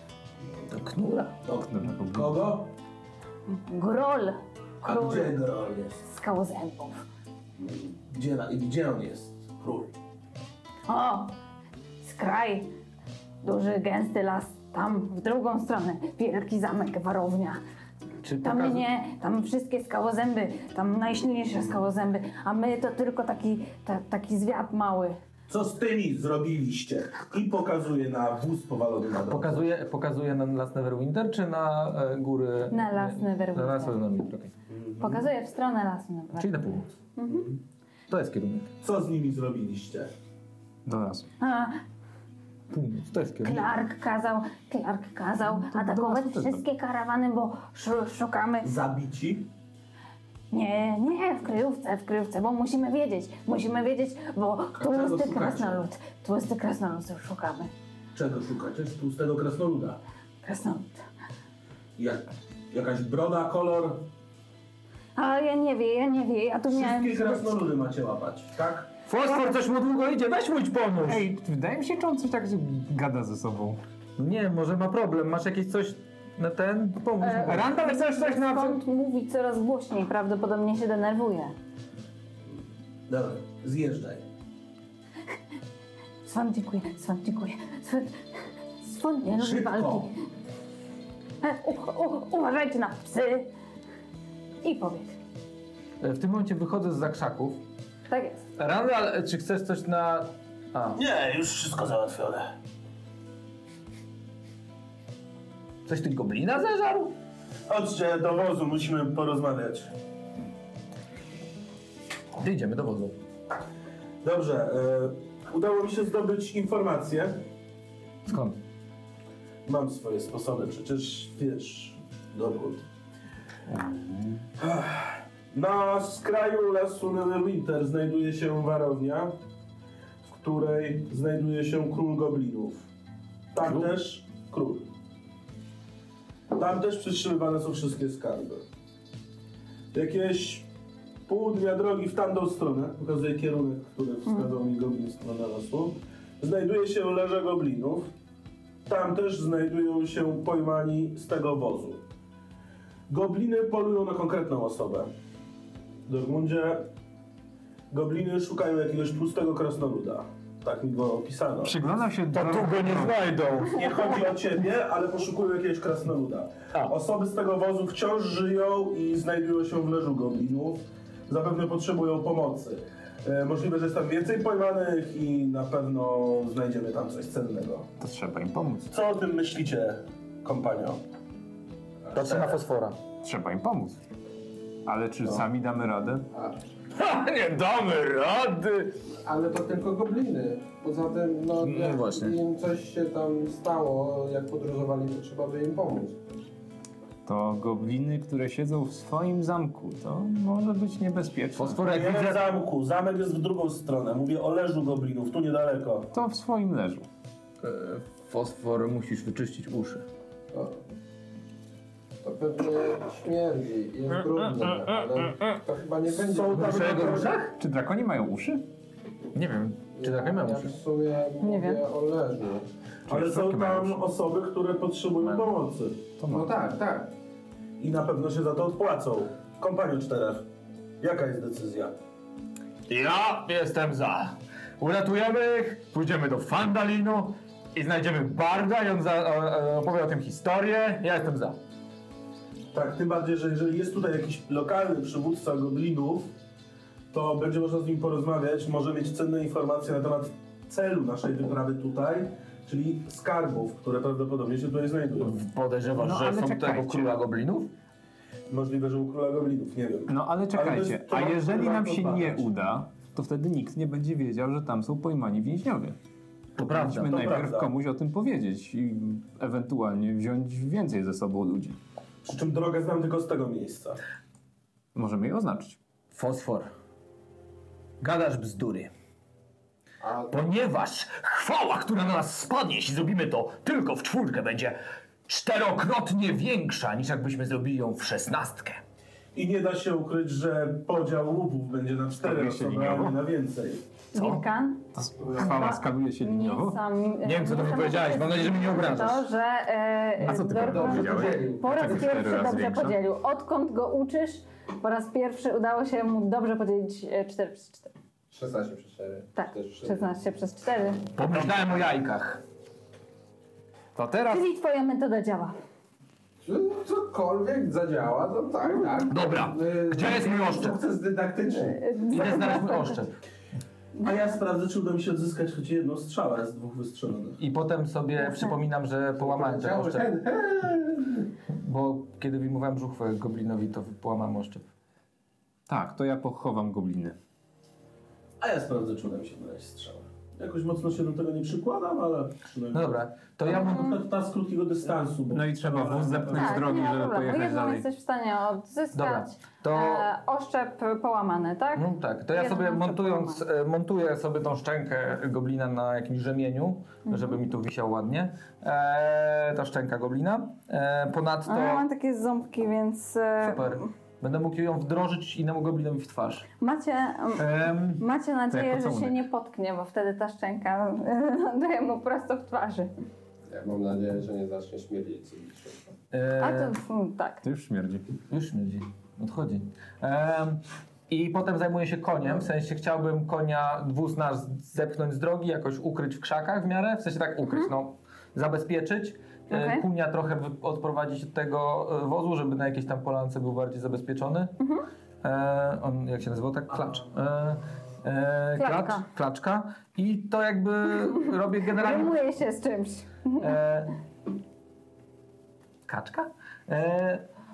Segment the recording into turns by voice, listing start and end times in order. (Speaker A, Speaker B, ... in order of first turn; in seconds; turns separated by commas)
Speaker A: 0.7-1.3, Speaker B: 1.4-2.7, Speaker C: 1.7-2.3, Speaker D: 3.5-5.4, Speaker B: 4.8-6.0, Speaker D: 6.0-7.0, Speaker B: 7.6-9.9, Speaker D: 10.9-11.3, Speaker D: 12.0-12.7, Speaker D: 13.4-17.6, Speaker A: 18.2-18.8, Speaker D: 18.4-25.2, Speaker B: 25.5-29.6, Speaker A: 29.3-34.5, Speaker D: 32.7-34.0, Speaker B: 34.7-35.3, Speaker D: 35.0-36.6, Speaker A: 36.3-36.9, Speaker D: 37.1-37.5, Speaker B: 37.2-37.6, Speaker A: 38.1-38.7, Speaker B: 38.8-40.1, Speaker C: 40.9-41.3, Speaker D: 41.4-41.8, Speaker A: 42.7-43.6, Speaker D: 43.4-48.7, Speaker C: 45.6-46.6, Speaker B: 48.6-49.5, Speaker D: 50.5-57.7, Speaker B: 54.7-55.8, Speaker B: 58.1-60.0, Speaker D: 60.4-61.0, Speaker B: 62.0-64.0, Speaker D: 65.2-67.5, Speaker B: 66.7-68.9, Speaker A: 69.1-71.2, Speaker C: 71.0-73.8, Speaker A: 74.2-78.8, Speaker D: 77.2-81.5, Speaker C: 77.5-78.5, Speaker B: 83.1-84.2, Speaker D: 86.2-88.2, Speaker D: 88.8-90.2, Speaker B: 89.3-90.1, Speaker D: 91.4-93.5, Speaker D: 94.6-95.2, Speaker A: 96.0-97.6, Speaker D: 98.1-98.4, Speaker A: 98.6-101.0, Speaker B: 100.9-102.5, Speaker A: 105.8-107.1, Speaker B: 107.7-109.9, Speaker A: 112.4-113.1, Speaker B: 114.2-117.4, Speaker A: 118.3-118.6, Speaker B: 119.7-122.8, Speaker B: 124.6-129.3, Speaker B: 130.2-132.9, Speaker B: 133.5-134.9, Speaker B: 136.5-138.6, Speaker B: 139.9-140.7, Speaker B: 141.3-148.1, Speaker B: 148.9-152.0, Speaker B: 153.1-155.1, Speaker B: 156.1-156.9, Speaker B: 157.9-161.7, Speaker C: 161.6-163.3, Speaker A: 162.3-163.9, Speaker B: 163.7-177.9, Speaker C: 178.0-178.9, Speaker B: 178.9-181.0, Speaker A: 182.1-183.0, Speaker B: 182.2-182.6, Speaker C: 183.2-184.0, Speaker C: 184.8-186.2, Speaker A: 186.9-189.0, Speaker E: 189.2-196.2, Speaker A: 191.6-192.4, Speaker C: 197.2-201.8, Speaker A: 201.5-202.4, Speaker B: 201.8-206.1, Speaker C: 206.1-207.1, Speaker A: 207.6-210.0, Speaker E: 210.5-210.8, Speaker E: 212.2-216.8, Speaker B: 216.1-217.4, Speaker A: 216.5-217.5, Speaker C: 217.6-218.6, Speaker A: 219.3-220.7, Speaker E: 220.0-222.7, Speaker D: 221.4-221.8, Speaker B: 223.1-226.0, Speaker C: 223.1-224.0, Speaker A: 225.2-225.5, Speaker C: 226.2-226.5, Speaker E: 226.3-227.1, Speaker B: 227.8-230.4, Speaker B: 231.0-231.9, Speaker A: 232.9-241.6, Speaker B: 242.7-246.3, Speaker B: 247.1-255.3, Speaker A: 255.2-257.7, Speaker C: 256.0-257.2, Speaker B: 258.5-262.5, Speaker C: 260.1-266.0, Speaker A: 266.6-267.3, Speaker C: 266.6-271.8, Speaker B: 267.0-267.7, Speaker B: 272.2-274.0, Speaker C: 274.9-275.8, Speaker A: 276.1-276.7, Speaker A: 278.0-278.9, Speaker E: 280.0-280.4, Speaker A: 280.3-288.8, Speaker B: 289.3-293.8, Speaker C: 292.2-293.2, Speaker D: 294.1-307.9, Speaker C: 294.9-296.8, Speaker A: 297.2-299.3, Speaker C: 300.2-303.0, Speaker E: 300.5-302.0, Speaker E: 308.3-310.1, Speaker D: 309.3-311.1, Speaker A: 311.1-312.4, Speaker C: 313.9-314.5, Speaker D: 314.3-315.5, Speaker E: 316.4-321.8, Speaker A: 319.1-320.8, Speaker D: 321.4-323.0, Speaker A: 322.1-323.1, Speaker D: 324.0-324.4, Speaker B: 324.0-327.4, Speaker A: 327.4-330.1, Speaker D: 328.2-328.6, Speaker E: 329.2-331.3, Speaker A: 331.5-334.6, Speaker C: 335.7-337.1, Speaker B: 338.4-346.8, Speaker A: 342.7-344.0, Speaker D: 343.5-344.0, Speaker C: 345.3-347.9, Speaker D: 346.3-353.4, Speaker A: 348.9-350.1, Speaker A: 351.7-361.9, Speaker D: 357.1-357.4, Speaker D: 361.4-363.9, Speaker A: 363.4-366.5, Speaker D: 366.6-367.5, Speaker A: 367.4-368.0, Speaker D: 368.0-372.9, Speaker C: 368.5-369.2, Speaker E: 373.5-375.9, Speaker A: 376.1-376.8, Speaker D: 376.4-377.4, Speaker C: 377.4-378.1, Speaker A: 378.3-394.6, Speaker D: 389.5-389.8, Speaker D: 394.6-394.8, Speaker A: 395.2-402.2, Speaker D: 398.6-399.1, Speaker D: 401.0-403.6, Speaker A: 403.4-403.9, Speaker A: 405.9-407.2